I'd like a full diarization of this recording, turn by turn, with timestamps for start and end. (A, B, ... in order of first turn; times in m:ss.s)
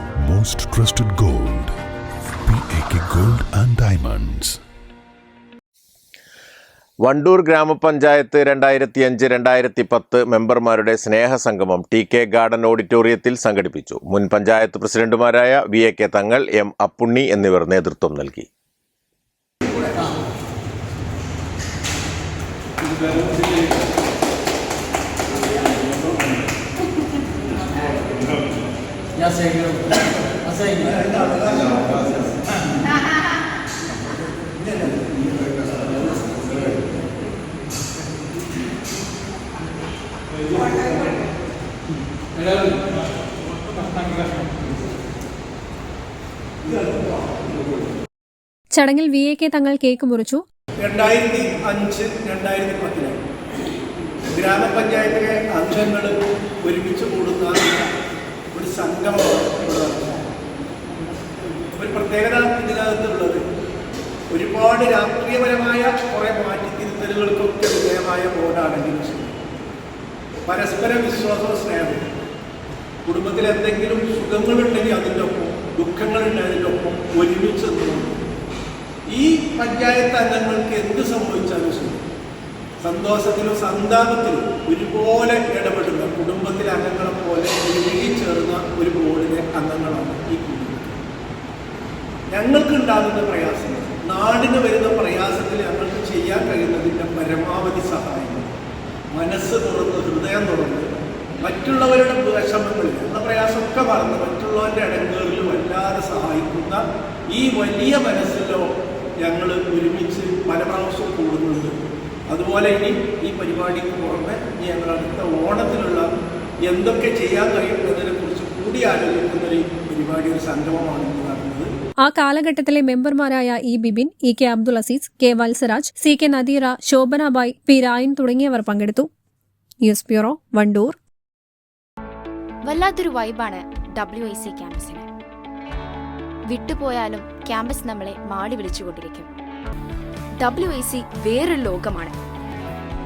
0:00.2-0:01.7 A
0:02.4-0:04.6 A
0:07.0-0:18.5 B
0:30.7-0:32.1 C
0:34.6-0:35.1 C
0:46.6-0:47.2 C
0:48.7-0:50.4 D
0:50.8-0:53.2 C
0:54.3-0:57.8 C
0:58.5-1:00.2 C
1:01.8-1:03.4 C
1:04.3-1:09.4 C
1:10.5-1:12.0 C
1:13.0-1:18.2 C
1:19.1-1:22.0 C
1:22.8-1:31.0 C
1:32.3-1:38.5 C
1:39.1-1:40.9 C
1:41.4-1:51.7 C
1:52.3-1:56.1 C
1:56.6-2:01.7 C
2:02.0-2:09.1 D
2:09.8-2:11.0 D
2:12.6-2:15.1 E
2:16.5-2:19.3 E
2:20.4-2:22.2 E